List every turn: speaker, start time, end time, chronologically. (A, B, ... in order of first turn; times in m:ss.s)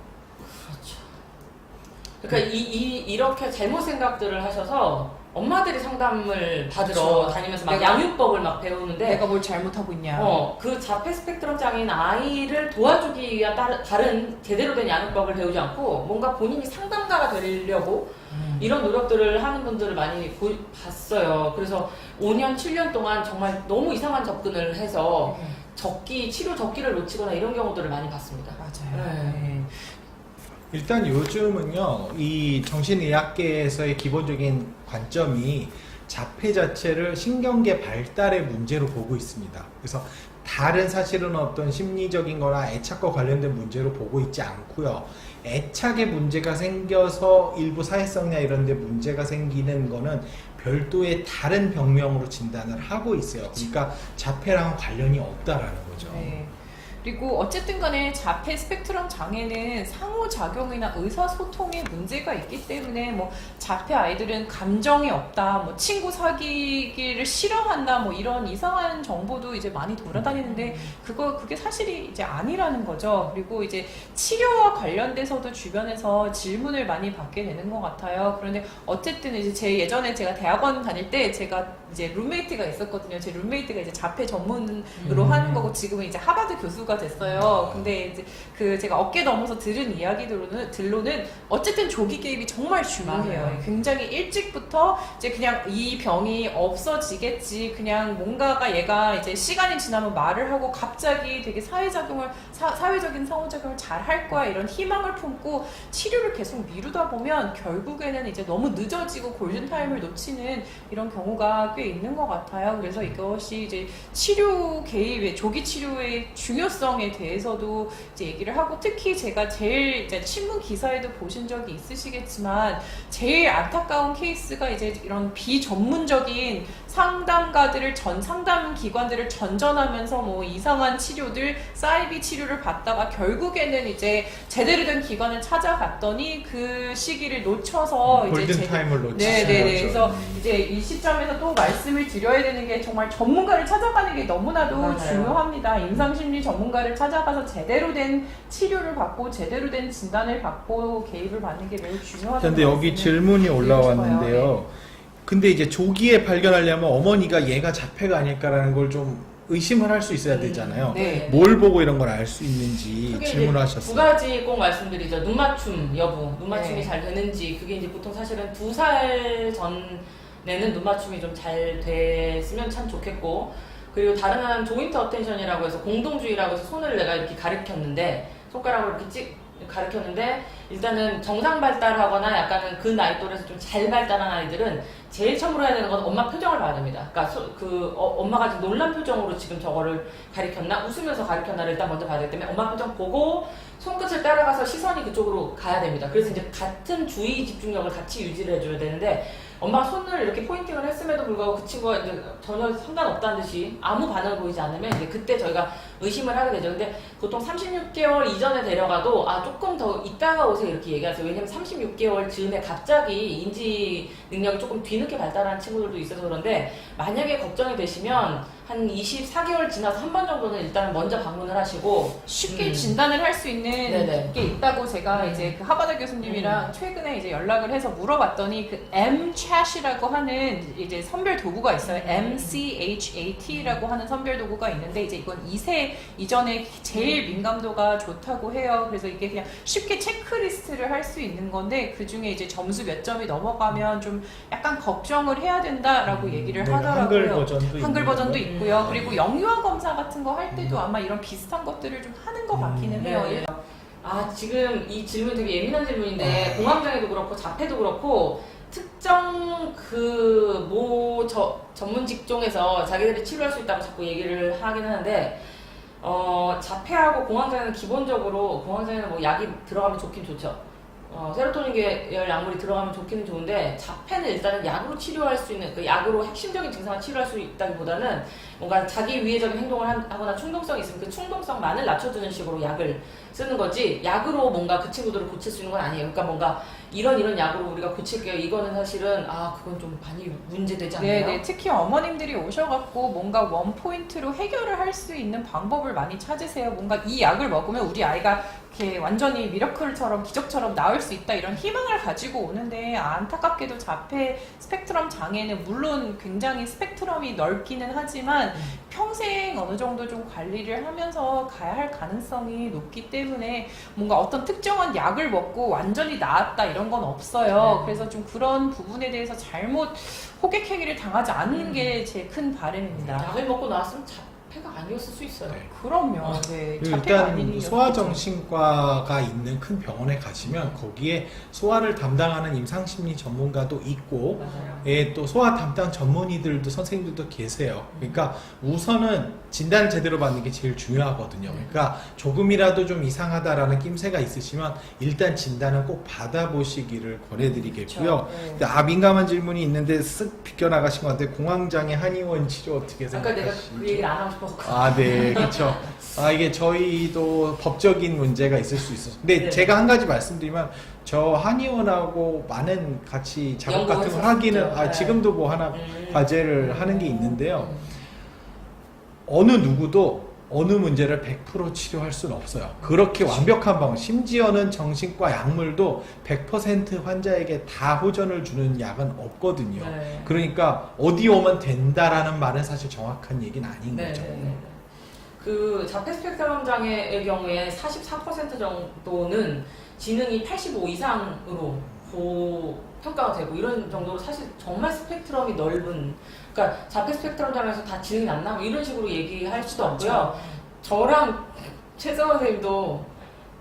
0:00.4-0:01.1 A
0:02.2-0:09.3 A
0:06.8-0:08.1 B
0:09.0-0:10.4 B
0:10.1-0:29.5 A
0:18.3-0:18.8 B
0:25.2-0:25.6 B
0:28.6-0:30.0 B
0:30.7-0:56.4 C
0:56.0-2:34.6 B
1:10.1-1:10.4 C
1:10.4-1:10.9 A
1:25.0-1:25.3 A
1:25.0-1:25.7 C
1:27.3-1:27.9 C
1:33.0-1:33.7 A
1:49.5-1:50.0 A
2:18.0-2:20.4 C
2:19.2-2:19.8 A
2:24.7-2:25.4 A
2:32.4-2:34.7 C
2:35.2-2:44.2 C
2:40.2-2:41.6 A
2:40.9-2:41.3 B
2:42.9-3:43.0 A
2:46.5-2:46.9 B
3:42.3-4:13.5 B
3:43.8-3:44.4 A
3:45.1-3:45.6 A
3:46.2-3:46.7 A
3:51.8-3:52.6 A
3:53.5-3:53.8 A
3:56.9-3:57.4 A
4:06.1-4:09.2 C
4:08.4-4:09.0 A
4:10.5-4:10.8 C
4:12.5-4:13.1 C
4:13.0-4:25.4 A
4:16.2-4:16.8 C
4:26.0-4:51.4 A
4:51.0-5:23.4 B
5:17.5-5:18.1 A
5:21.5-5:22.0 A
5:22.9-5:23.2 C
5:23.2-5:25.6 A
5:25.5-5:54.1 C
5:25.7-5:28.2 B
5:30.4-5:30.8 A
5:34.4-5:35.0 A
5:37.9-5:38.2 A
5:41.5-5:41.8 A
5:47.4-5:48.6 A
5:53.1-5:56.1 A
5:54.6-6:07.8 C
5:59.4-5:59.8 A
6:03.7-6:08.0 A
6:09.3-6:24.6 C
6:12.8-6:13.5 A
6:19.7-6:20.4 A
6:23.9-6:24.8 A
6:25.4-6:43.1 A
6:39.5-6:40.6 B